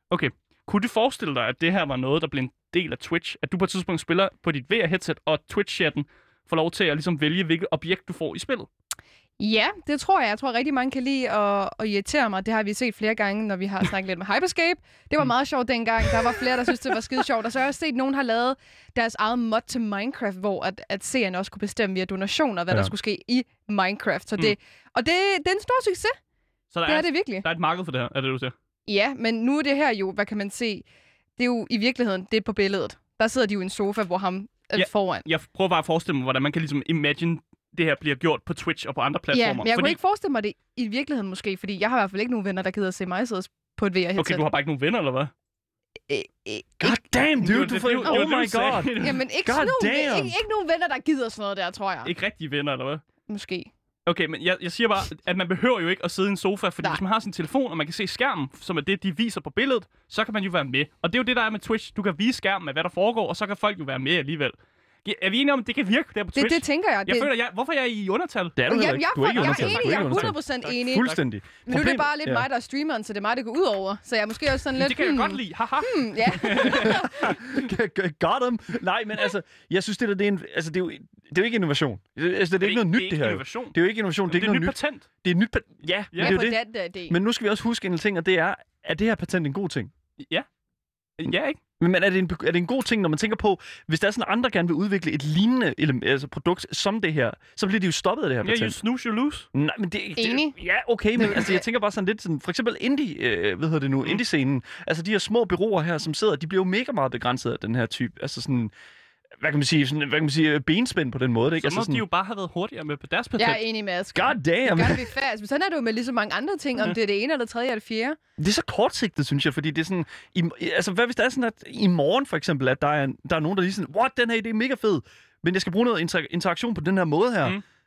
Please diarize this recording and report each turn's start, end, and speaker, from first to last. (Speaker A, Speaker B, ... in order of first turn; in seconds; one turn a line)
Speaker A: 0.1-8.7
Speaker B: 9.4-26.1
Speaker A: 26.7-28.5
Speaker B: 26.9-27.4
Speaker B: 28.9-30.9
Speaker B: 31.4-35.3
Speaker A: 34.8-40.0
Speaker B: 39.3-44.4
Speaker A: 44.2-45.3
Speaker B: 46.1-47.3
Speaker C: 46.8-50.4
Speaker A: 47.4-49.2
Speaker B: 48.9-52.1
Speaker A: 52.0-53.0
Speaker B: 53.3-53.7
Speaker A: 54.0-68.6
Speaker B: 66.3-67.3
Speaker C: 68.5-72.5
Speaker B: 68.7-77.4
Speaker A: 69.3-71.2
Speaker A: 74.8-77.3
Speaker C: 76.7-89.9
Speaker A: 82.6-85.1
Speaker A: 86.1-86.4
Speaker B: 86.2-87.2
Speaker A: 91.2-91.6
Speaker C: 91.8-98.8
Speaker A: 98.4-99.5
Speaker C: 99.5-108.7
Speaker B: 100.2-100.5
Speaker B: 101.2-101.6
Speaker C: 109.4-112.0
Speaker A: 111.5-113.6
Speaker B: 113.4-118.2
Speaker C: 114.1-115.1
Speaker C: 118.4-127.6